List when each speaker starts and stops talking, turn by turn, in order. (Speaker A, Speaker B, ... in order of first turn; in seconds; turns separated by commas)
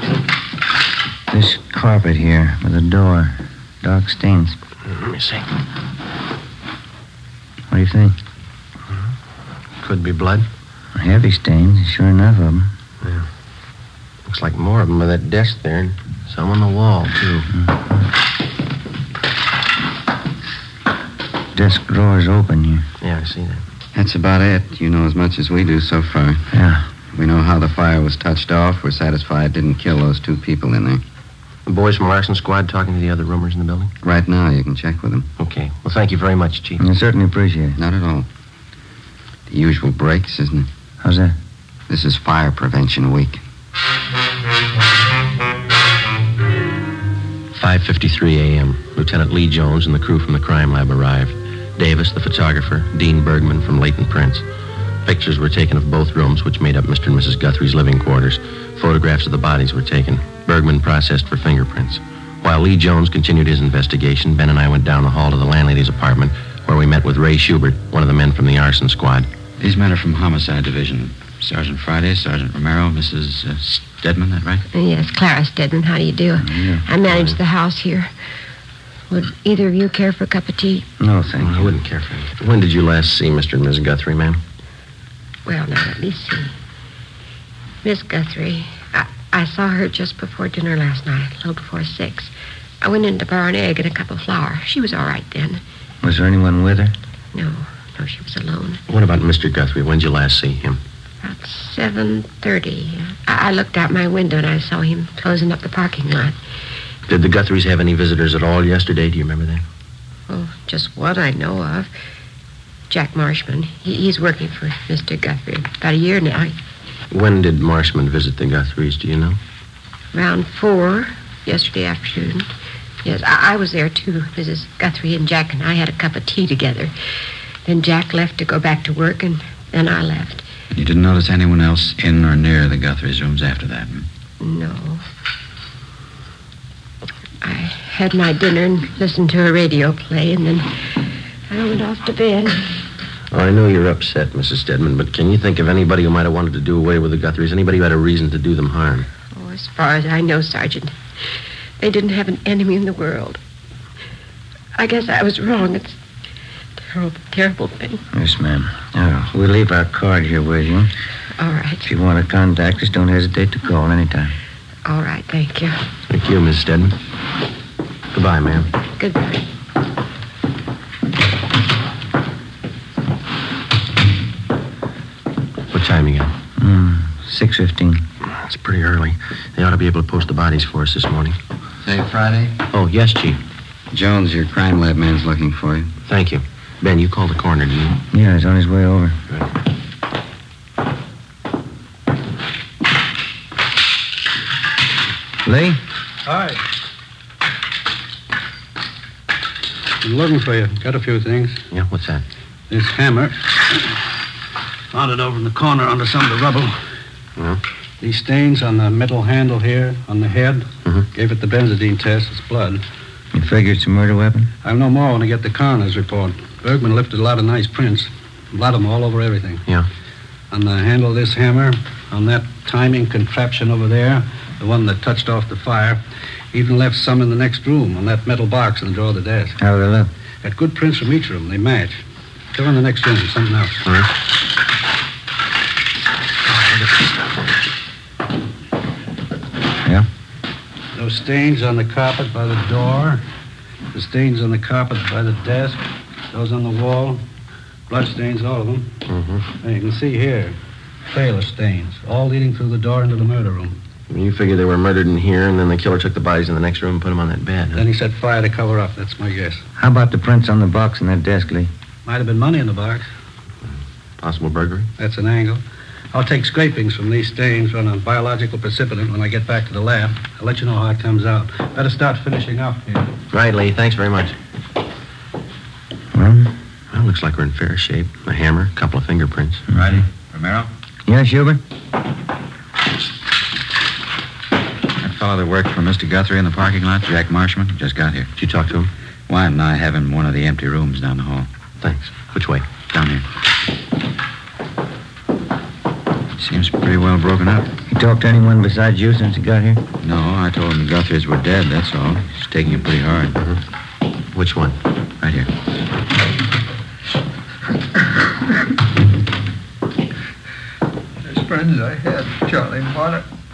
Speaker A: 1.3-4.6, Speaker B: 4.9-5.5, Speaker A: 7.7-8.2, Speaker B: 9.8-10.5, Speaker A: 10.9-12.7, Speaker B: 14.2-17.5, Speaker A: 21.5-22.9, Speaker B: 23.0-23.6, Speaker C: 23.9-26.5, Speaker A: 26.5-26.9, Speaker C: 27.1-31.0, Speaker B: 31.6-33.9, Speaker C: 34.0-35.3, Speaker B: 35.4-36.8, Speaker A: 36.8-37.8, Speaker C: 37.8-38.3, Speaker C: 39.5-40.7, Speaker A: 41.0-41.4, Speaker C: 41.9-43.4, Speaker B: 47.5-54.4, Speaker B: 55.0-69.3, Speaker D: 69.6-74.6, Speaker E: 74.7-78.1, Speaker A: 76.4-76.8, Speaker E: 79.1-80.9, Speaker A: 81.0-81.7, Speaker B: 81.4-84.4, Speaker E: 85.5-86.5, Speaker E: 87.8-95.6, Speaker A: 96.0-96.9, Speaker E: 97.3-98.8, Speaker B: 98.9-100.8, Speaker E: 101.2-106.3, Speaker B: 107.1-109.6, Speaker E: 110.3-111.9, Speaker E: 112.9-116.5, Speaker B: 117.1-119.4, Speaker E: 120.1-122.5, Speaker E: 123.0-126.9, Speaker E: 127.6-130.4, Speaker D: 130.7-134.1, Speaker E: 134.4-135.0, Speaker E: 137.4-140.9, Speaker E: 141.5-142.7, Speaker B: 143.3-149.1, Speaker E: 149.3-150.9, Speaker E: 151.8-153.4, Speaker E: 154.8-155.9, Speaker E: 156.9-158.0, Speaker A: 158.1-160.9, Speaker E: 161.4-161.8, Speaker A: 161.8-164.3, Speaker E: 164.8-165.8, Speaker B: 166.1-166.9, Speaker B: 168.1-168.7, Speaker E: 169.0-169.4, Speaker B: 175.7-176.3, Speaker A: 176.6-178.0, Speaker B: 178.3-181.4, Speaker C: 181.8-182.6, Speaker B: 182.7-183.4, Speaker C: 183.9-185.9, Speaker B: 186.1-188.0, Speaker A: 188.1-189.2, Speaker A: 195.4-195.8, Speaker F: 196.2-196.6, Speaker F: 200.0-201.6, Speaker B: 201.7-202.2, Speaker F: 202.7-203.8, Speaker F: 204.9-206.8, Speaker F: 208.0-212.8, Speaker A: 213.3-214.5, Speaker F: 214.6-219.6, Speaker F: 220.5-226.0, Speaker F: 226.5-229.6, Speaker A: 229.6-230.1, Speaker F: 230.4-232.0, Speaker F: 232.5-233.8, Speaker B: 233.8-234.1, Speaker F: 240.9-243.2, Speaker F: 243.9-247.2, Speaker F: 247.9-248.9, Speaker B: 249.1-249.4, Speaker F: 249.6-250.6, Speaker F: 251.1-253.8, Speaker B: 254.1-257.8, Speaker F: 257.7-259.6, Speaker A: 259.8-261.7, Speaker F: 262.1-263.1, Speaker B: 264.2-264.9, Speaker F: 265.0-265.6, Speaker F: 266.1-273.1, Speaker B: 273.3-274.4, Speaker A: 276.1-276.5, Speaker B: 276.9-279.6, Speaker D: 279.7-280.7, Speaker A: 281.1-281.6, Speaker D: 285.0-288.3, Speaker B: 288.4-288.9, Speaker D: 289.3-291.5, Speaker B: 291.8-292.7, Speaker D: 292.9-293.2, Speaker D: 296.4-297.7, Speaker A: 297.9-299.8, Speaker D: 300.0-303.4, Speaker B: 304.3-304.8, Speaker D: 305.2-305.5, Speaker G: 311.2-313.2